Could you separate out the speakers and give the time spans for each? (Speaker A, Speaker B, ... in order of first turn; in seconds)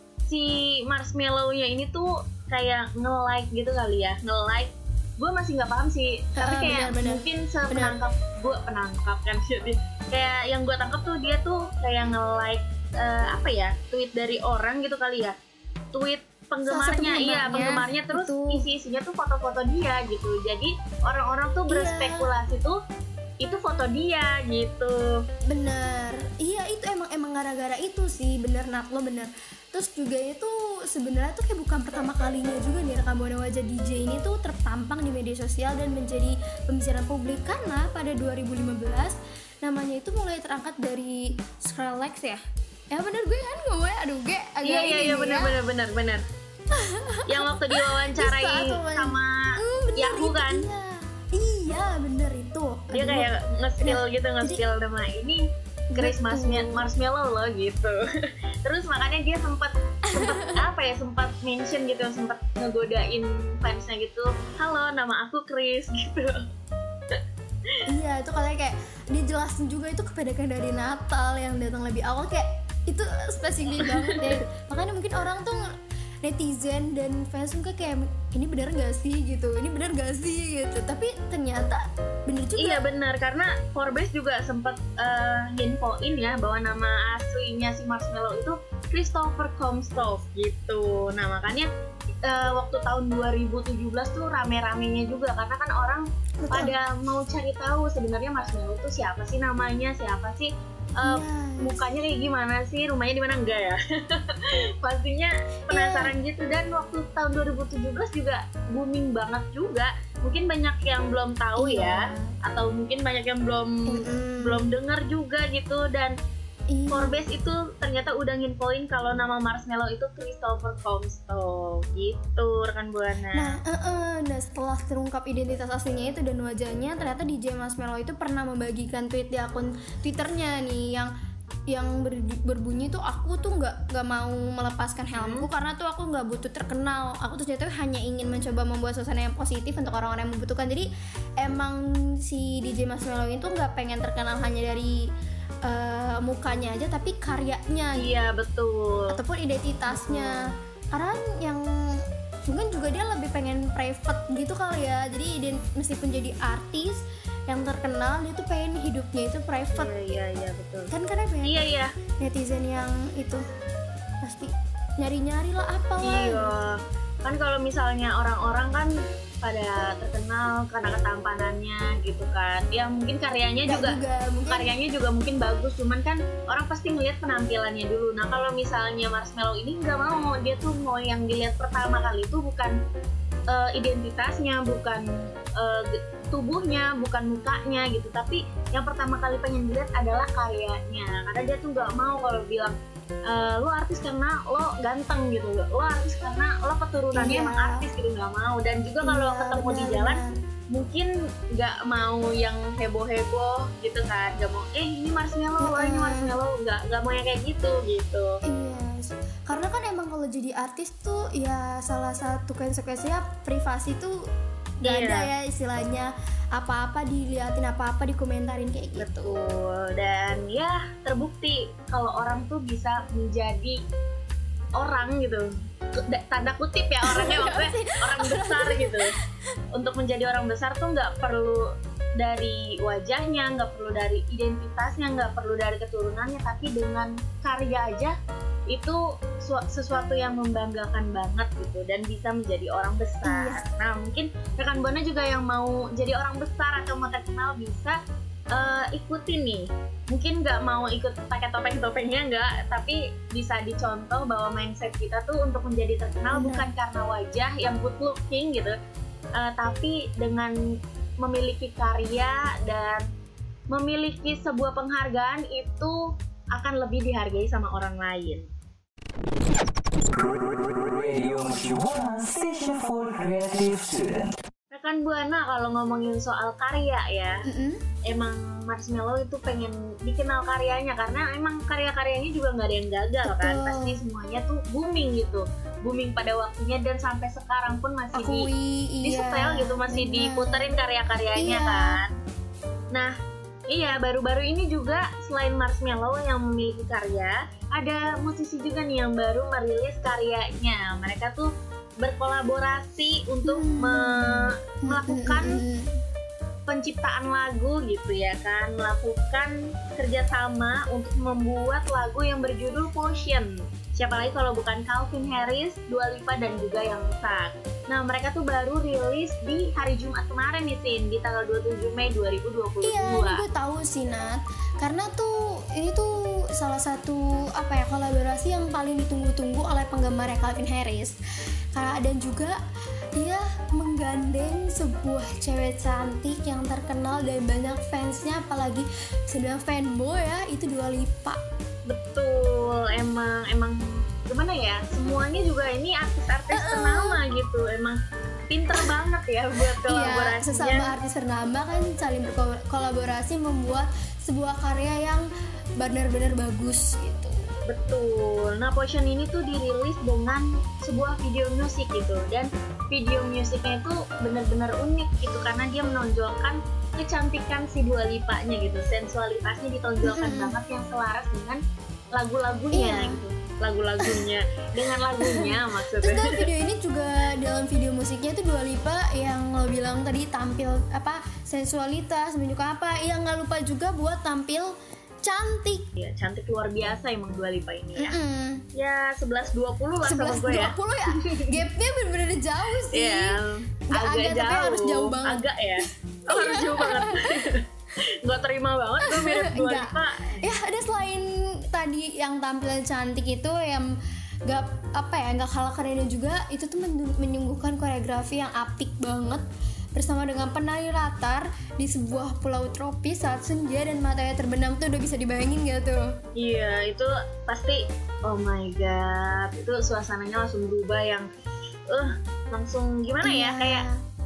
Speaker A: 0.3-15.3, 15.9-22.8, 23.4-25.2, 44.6-46.2, 47.3-50.7, 52.9-55.4, 56.0-58.0, 58.6-66.4, 73.8-74.2, 82.6-91.7, 92.3-116.2, 116.9-123.5, 135.2-135.5, 148.0-149.1, 149.9-150.5, 159.7-160.9, 161.4-161.9, 166.1-174.0, 174.5-182.8, 183.5-192.8, 193.3-200.2, 200.7-208.4, 214.8-215.3, 219.0-223.8, 224.8-225.5, 226.1-229.1, 229.7-231.7, 232.2-238.1, 238.7-248.0, 248.5-258.8, 259.4-260.6, 261.2-263.1, 263.7-266.0, 266.5-268.5, 274.7-277.4, 278.1-288.5, 289.0-292.1, 293.7-301.5, 302.0-305.6, 306.7-323.4, 341.9-348.0, 348.5-350.9, 357.7-371.6, 372.1-376.4, 386.0-388.2, 388.8-391.4, 392.9-397.6, 398.2-400.4, 416.4-421.3, 421.9-423.9
Speaker B: 6.4-8.0, 16.7-18.6, 21.7-22.3, 25.5-45.6, 46.8-53.3, 53.8-54.6, 55.9-56.9, 60.1-60.5, 67.9-75.6, 76.2-82.8, 96.4-96.8, 101.0-101.8, 105.7-106.1, 111.6-112.3, 113.9-114.7, 116.7-117.1, 123.3-131.1, 131.7-140.9, 141.4-145.0, 145.7-148.1, 149.1-150.4, 150.9-160.2, 160.9-161.6, 162.2-163.4, 164.2-166.5, 173.7-174.7, 197.1-197.9, 199.0-200.3, 205.6-206.4, 208.4-214.2, 214.8-219.3, 227.1-229.0, 243.2-243.7, 256.3-256.7, 277.5-277.8, 283.2-284.0, 288.1-290.7, 291.4-292.0, 303.4-306.0, 322.8-331.1, 331.7-332.6, 333.2-341.4, 346.5-347.2, 349.9-355.3, 355.8-357.4, 370.0-370.5, 372.7-373.2, 375.2-384.7, 385.2-385.9, 388.0-388.6, 390.0-393.4, 393.9-395.5, 396.3-397.5, 399.1-403.9, 404.5-409.4, 409.9-416.1, 423.2-423.9
Speaker C: 270.7-274.3